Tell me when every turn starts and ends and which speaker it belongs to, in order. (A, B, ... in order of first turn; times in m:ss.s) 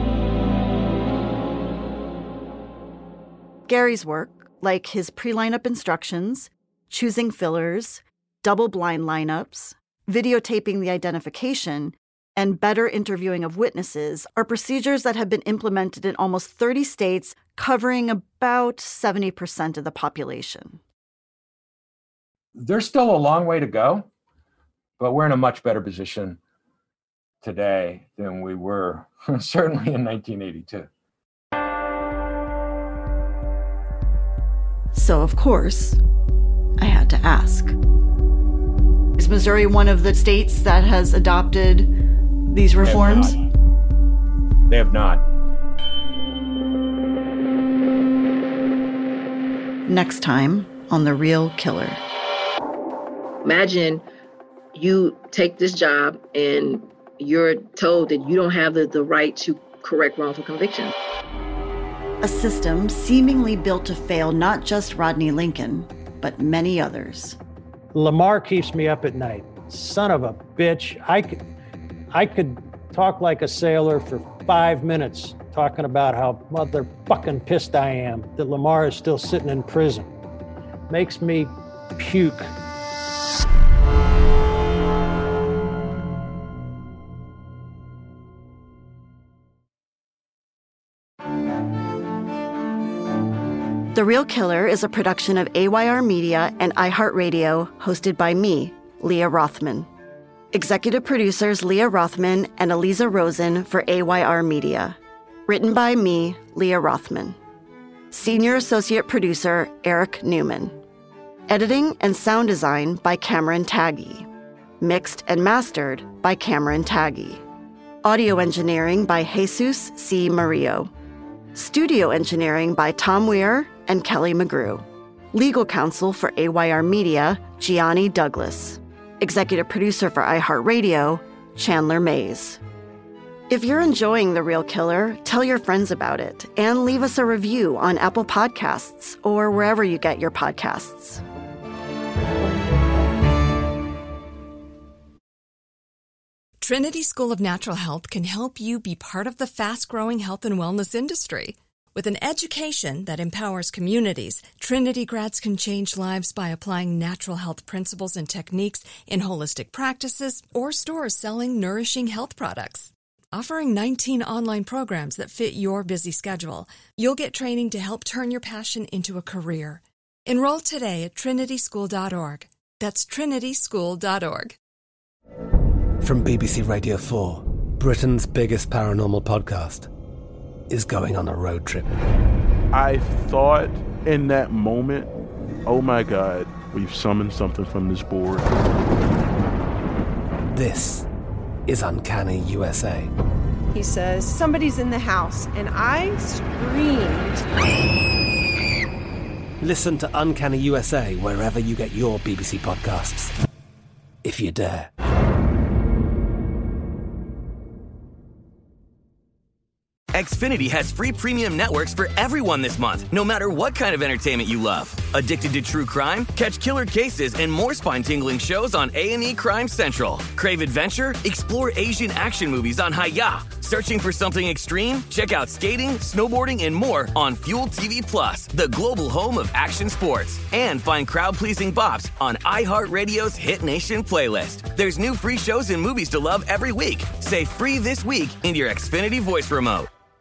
0:03.7-0:20.8 A
0:22.6-0:24.1 B
0:25.0-0:26.4 B
0:27.4-0:30.9 B
0:34.9-0:36.0 A
0:36.8-0:37.8 A
0:39.2-0:41.9 A
0:42.5-0:43.4 A
0:42.8-0:43.4 B
0:44.7-0:45.2 B
0:49.9-0:52.0 A
0:53.4-0:54.0 C
0:54.7-1:00.9 C
1:02.2-1:07.4 A
1:07.9-1:11.4 D
1:12.1-1:20.1 D
1:20.9-1:22.5 D
1:33.9-1:39.9 A
1:40.5-1:47.4 A
1:48.1-1:50.8 A
1:51.5-1:54.3 A
1:54.8-1:57.4 A
1:58.0-2:00.9 A
2:01.6-2:12.6 A
2:13.5-2:21.2 A
2:26.6-2:54.6 E
2:56.0-2:59.9 F
3:00.7-3:02.0 F
3:02.7-3:05.1 G
3:05.7-3:08.5 G
3:10.5-3:11.1 F
3:11.7-3:13.1 F
3:13.7-3:17.4 H
3:19.6-3:23.3 F
3:24.2-3:24.9 F
3:30.1-3:59.9 I